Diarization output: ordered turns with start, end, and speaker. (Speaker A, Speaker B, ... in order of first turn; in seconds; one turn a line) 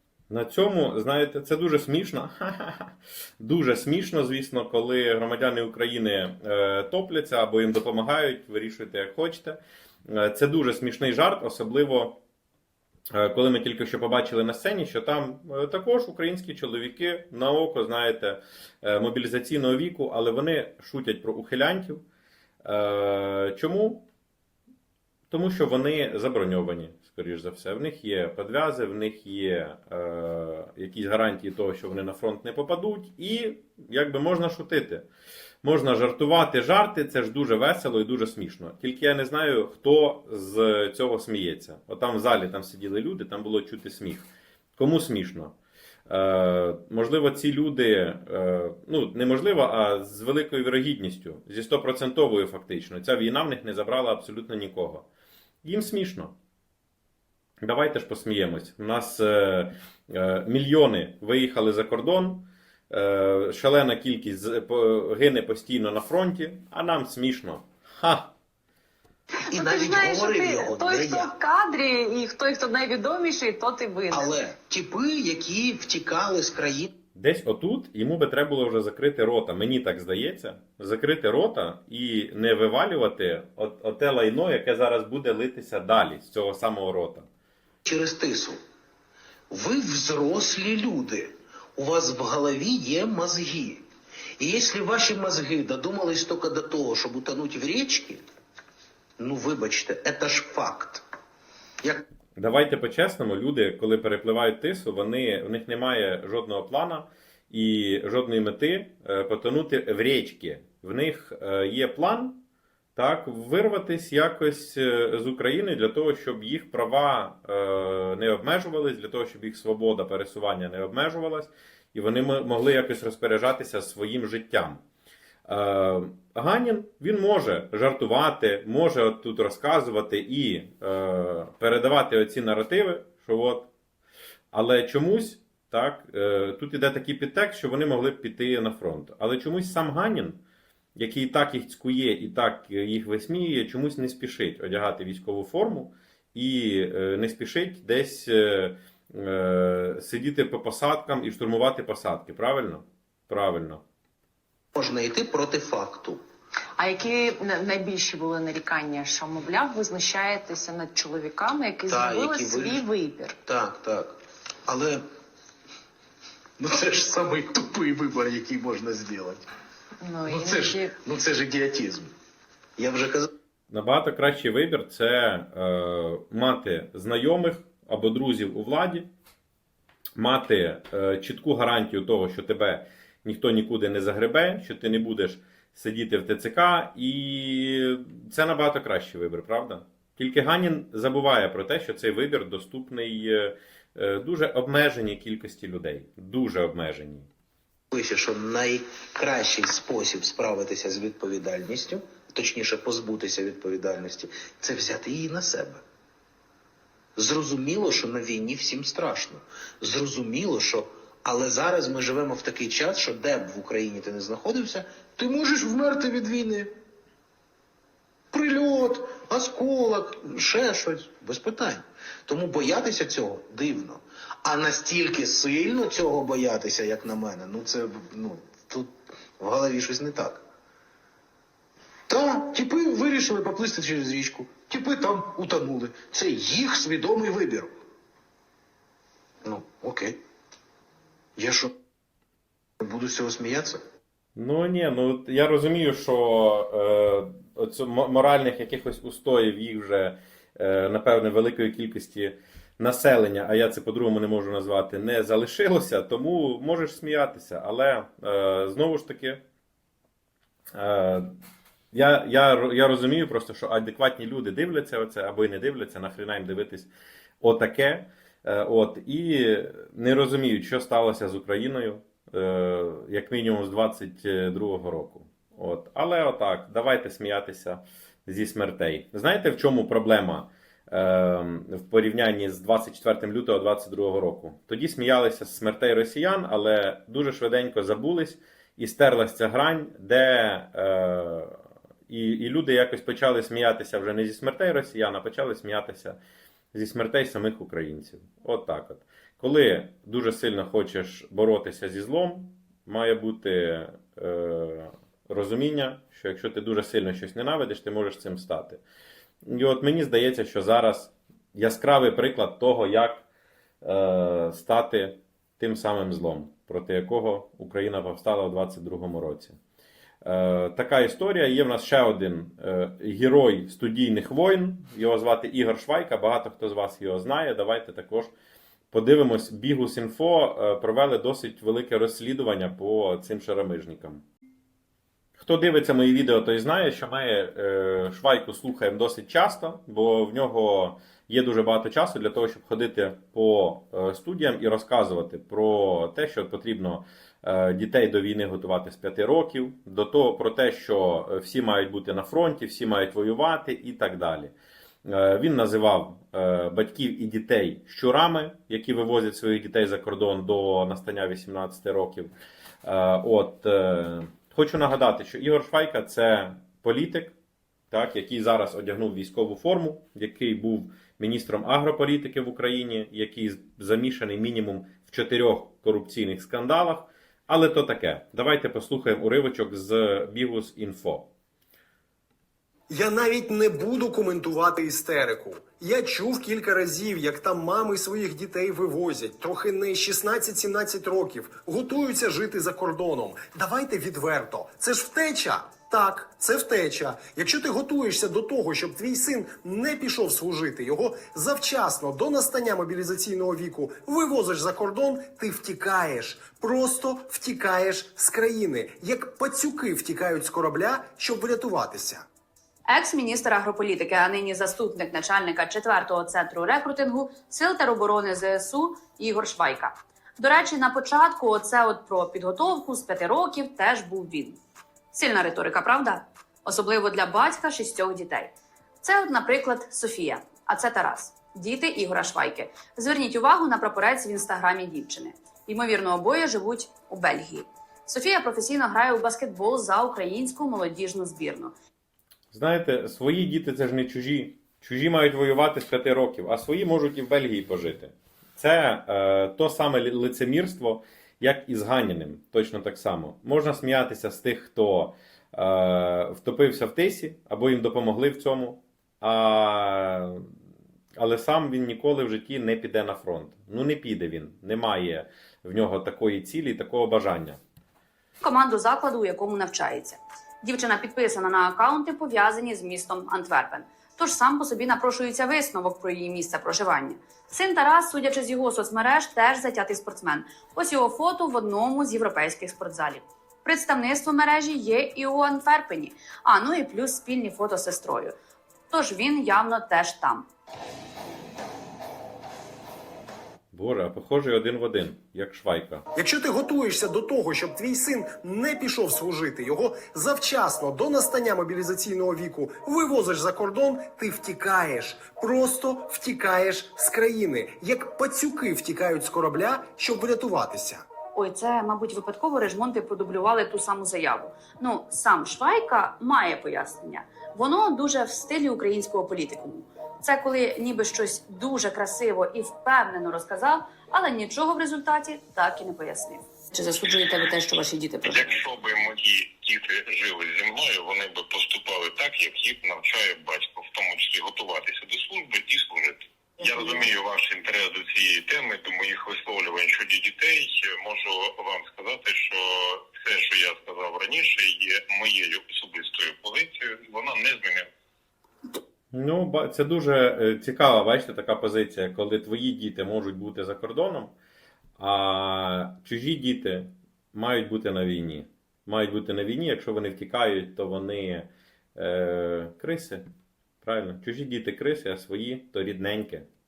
Speaker A: 0.3-12.2
Speaker A: 13.1-22.0
Speaker A: 22.6-24.1
Speaker A: 25.3-35.1
Speaker A: 35.6-45.5
Speaker A: 46.1-55.1
Speaker A: 55.6-56.3
Speaker A: 57.6-68.3
Speaker B: 69.4-74.4
Speaker C: 69.5-71.4
Speaker C: 74.1-76.9
Speaker A: 77.2-87.3
Speaker C: 87.9-88.6
Speaker C: 89.5-93.8
Speaker C: 94.4-98.2
Speaker C: 99.2-101.0
Speaker A: 102.4-112.4
Speaker A: 113.0-124.8
Speaker A: 125.5-133.7
Speaker A: 134.5-140.4
Speaker A: 141.0-153.8
Speaker C: 154.8-156.2
Speaker B: 156.8-163.3
Speaker C: 161.9-162.8
Speaker C: 163.4-164.2
Speaker C: 164.7-165.0
Speaker C: 166.6-169.5
Speaker B: 170.0-171.0
Speaker C: 170.2-172.1
Speaker C: 172.8-173.3
Speaker A: 173.7-179.1
Speaker A: 180.2-197.3
Speaker C: 197.9-205.8
Speaker C: 207.2-216.7
Speaker C: 218.3-230.4
Speaker C: 232.1-237.7
Speaker C: 239.4-240.2
Speaker C: 241.4-241.7
Speaker C: 242.8-243.8
Speaker A: 244.3-259.4
Speaker A: 260.7-261.3
Speaker A: 261.9-266.9
Speaker A: 267.4-296.2
Speaker A: 296.7-308.8
Speaker A: 309.4-313.3
Speaker A: 313.8-319.6
Speaker A: 320.2-328.3
Speaker A: 328.9-334.2
Speaker A: 335.4-354.5
Speaker A: 355.0-362.3
Speaker A: 362.8-367.4
Speaker A: 367.9-381.3
Speaker D: 382.9-412.2
Speaker E: 412.9-424.6
Speaker E: 425.1-441.7
Speaker A: 442.5-460.4
Speaker A: 461.2-467.6
Speaker E: 468.4-488.4
Speaker E: 488.9-490.5
Speaker A: 493.7-496.0
Speaker D: 496.1-511.0
Speaker E: 511.4-528.6
Speaker F: 528.2-547.9
Speaker A: 549.1-554.3
Speaker A: 555.0-563.2
Speaker A: 563.8-566.5